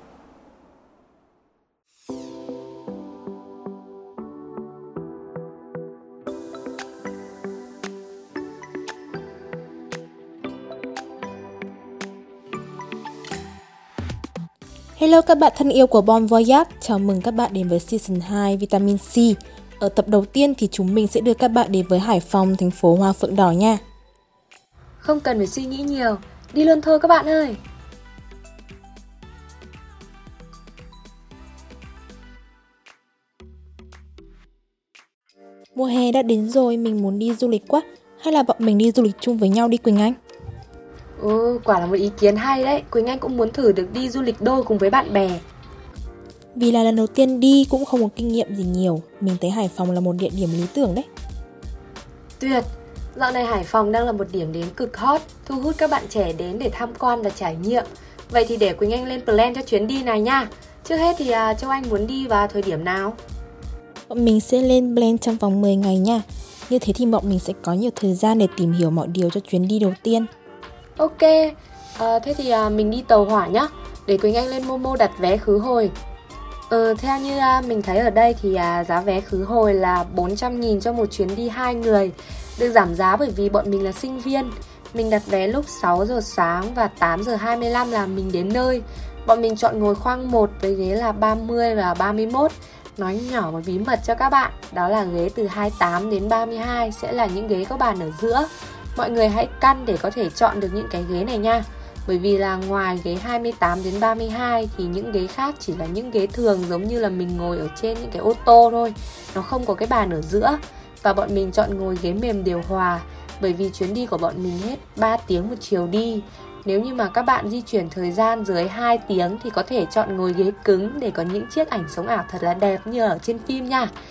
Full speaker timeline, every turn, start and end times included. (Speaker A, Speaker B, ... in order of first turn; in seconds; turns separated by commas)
Speaker A: 15.0-23.8, Speaker B: 25.0-27.6, Speaker A: 35.8-40.2, Speaker B: 41.2-45.4, Speaker A: 46.6-51.1, Speaker B: 52.4-63.2, Speaker A: 64.1-70.3, Speaker B: 71.0-75.9, Speaker B: 76.7-123.9